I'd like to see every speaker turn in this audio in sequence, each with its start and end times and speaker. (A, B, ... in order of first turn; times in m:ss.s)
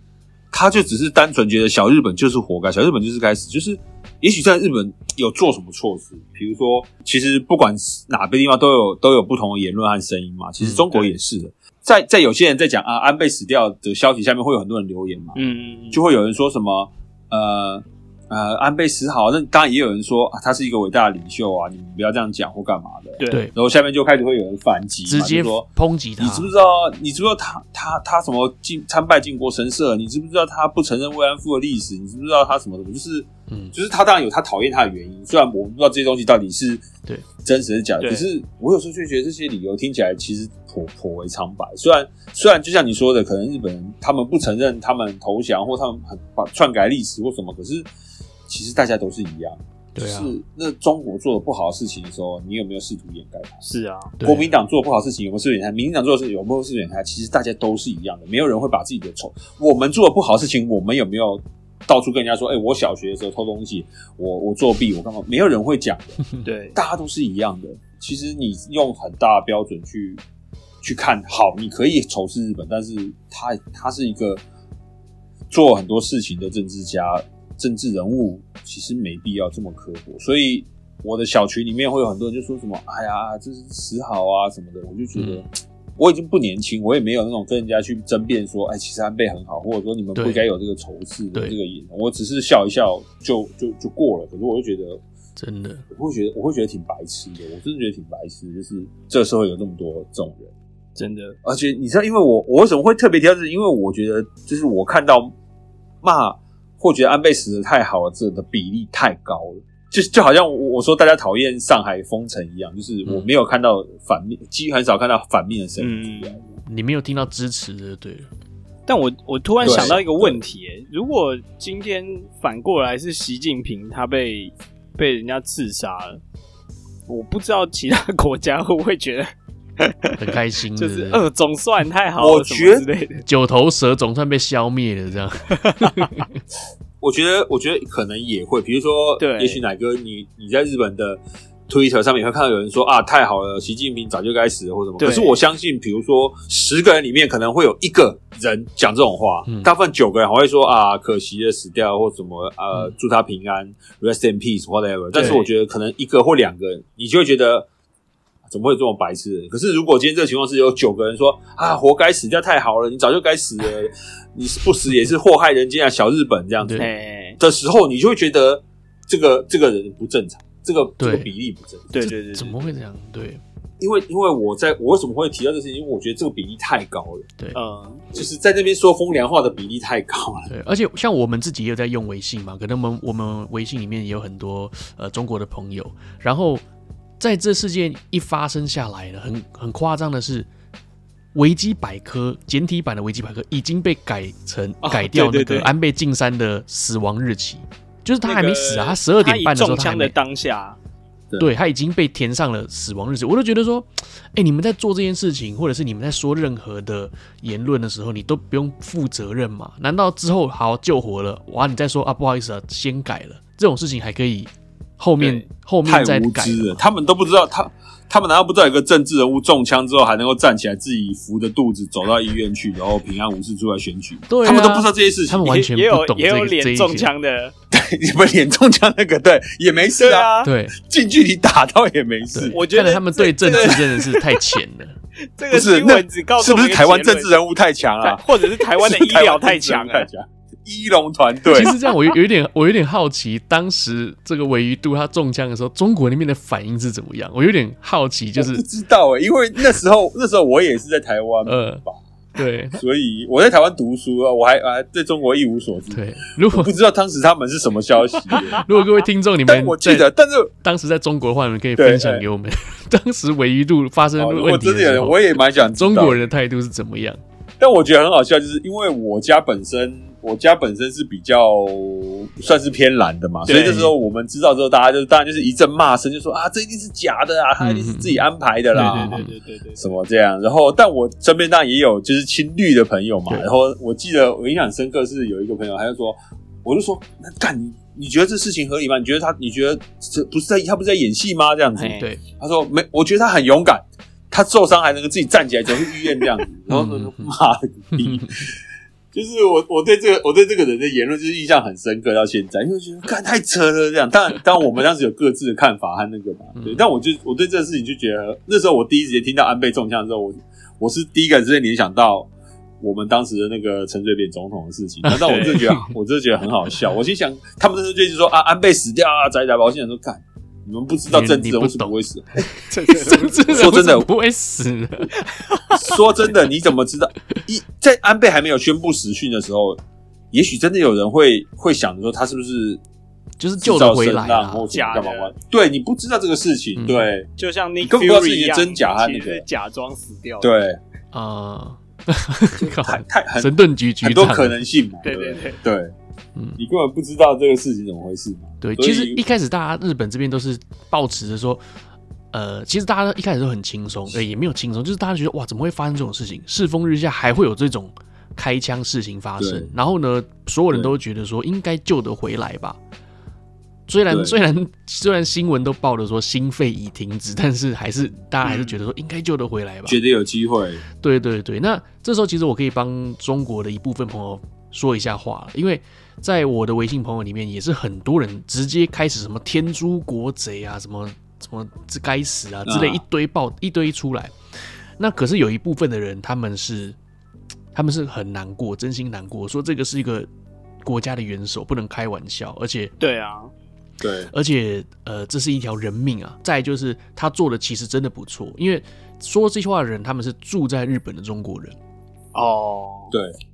0:00.5-0:15.4 A
0:10.6-0:10.9 B
0:15.3-0:16.0 C
0:15.9-0:25.7 A
0:23.2-0:23.5 C
0:25.1-0:26.5 B
0:26.2-0:36.9 A
0:33.5-0:33.7 B
0:37.4-0:47.8 A
0:38.0-0:38.3 C
0:48.5-0:53.6 A
0:49.9-0:50.3 B
0:53.6-0:54.1 C
0:54.2-0:54.5 B
0:54.2-1:06.2 A
1:06.4-1:06.8 C
1:06.8-1:10.2 A
1:10.8-1:14.4 A
1:15.5-1:35.0 A
1:25.2-1:25.4 B
1:30.2-1:30.4 B
1:35.4-1:35.8 B
1:35.9-1:40.5 A
1:41.0-1:41.4 C
1:41.4-1:45.3 A
1:46.0-1:56.4 A
1:55.8-1:56.6 C
1:56.6-1:58.3 B
1:58.9-2:06.2 C
1:59.6-2:00.0 B
1:59.6-2:00.4 A
2:07.1-2:13.2 C
2:10.2-2:11.2 B
2:12.2-2:12.8 A
2:13.2-2:16.3 B
2:15.6-2:16.1 C
2:17.0-2:37.7 A
2:19.2-2:19.6 C
2:25.0-2:25.4 C
2:35.1-2:35.5 C
2:38.5-2:46.8 A
2:46.6-2:46.9 B
2:46.8-2:47.4 C
2:47.4-2:51.9 A
2:51.0-2:51.3 B
2:51.9-2:52.7 C
2:52.0-2:53.4 B
2:53.8-2:57.3 A
2:57.5-2:58.0 C
2:58.1-3:00.5 A
3:00.5-3:06.6 B
3:07.2-3:10.5 B
3:11.3-3:20.1 B
3:14.8-3:15.7 C
3:18.2-3:20.8 C
3:21.4-3:36.8 B
3:35.2-3:35.4 C
3:35.8-3:45.5 A
3:44.3-3:47.1 B
3:45.4-3:47.5 C
3:47.7-3:52.6 A
3:50.0-3:50.5 C
3:50.4-3:50.8 B
3:52.3-3:55.0 B
3:52.5-3:54.4 C
3:53.5-3:53.8 A
3:55.4-3:57.3 C
3:55.5-4:01.7 A
3:58.0-4:00.1 C
4:01.5-4:08.6 B
4:08.4-4:12.0 A
4:11.4-4:11.8 B
4:12.3-4:12.8 B
4:12.7-4:18.6 A
4:15.9-4:16.7 B
4:18.5-4:20.1 B
4:19.4-4:20.5 A
4:20.6-4:27.2 B
4:21.8-4:22.2 A
4:24.2-4:26.2 A
4:27.6-4:39.2 A
4:33.5-4:33.7 C
4:33.5-4:33.9 B
4:37.6-4:39.3 B
4:38.8-4:39.8 C
4:39.8-4:58.6 A
4:51.7-4:52.0 C
4:56.7-4:57.3 B
4:58.0-4:58.3 B
4:59.1-5:22.4 A
5:06.6-5:06.8 B
5:15.0-5:15.9 B
5:15.2-5:15.7 C
5:21.1-5:25.1 B
5:22.7-5:23.8 C
5:23.5-5:24.1 A
5:25.2-5:25.9 C
5:25.7-5:29.8 A
5:30.3-5:32.8 A
5:33.4-5:34.7 B
5:33.6-5:37.3 A
5:34.7-5:35.3 C
5:36.8-5:37.1 B
5:37.4-5:40.6 C
5:37.8-5:39.4 A
5:40.4-5:40.8 A
5:41.1-5:44.6 B
5:42.6-5:45.9 A
5:45.0-5:45.6 C
5:46.6-5:49.2 A
5:48.6-5:51.6 B
5:52.3-6:02.8 B
5:59.4-5:59.7 A
6:03.9-6:10.0 B
6:04.1-6:04.4 A
6:08.4-6:08.8 C
6:09.8-6:10.8 A
6:11.0-6:24.3 B
6:22.6-6:23.0 A
6:25.0-6:27.0 B
6:27.7-6:30.3 B
6:30.8-6:32.9 B
6:33.0-6:33.5 C
6:34.0-6:34.3 A
6:34.3-6:41.8 B
6:42.3-6:43.1 C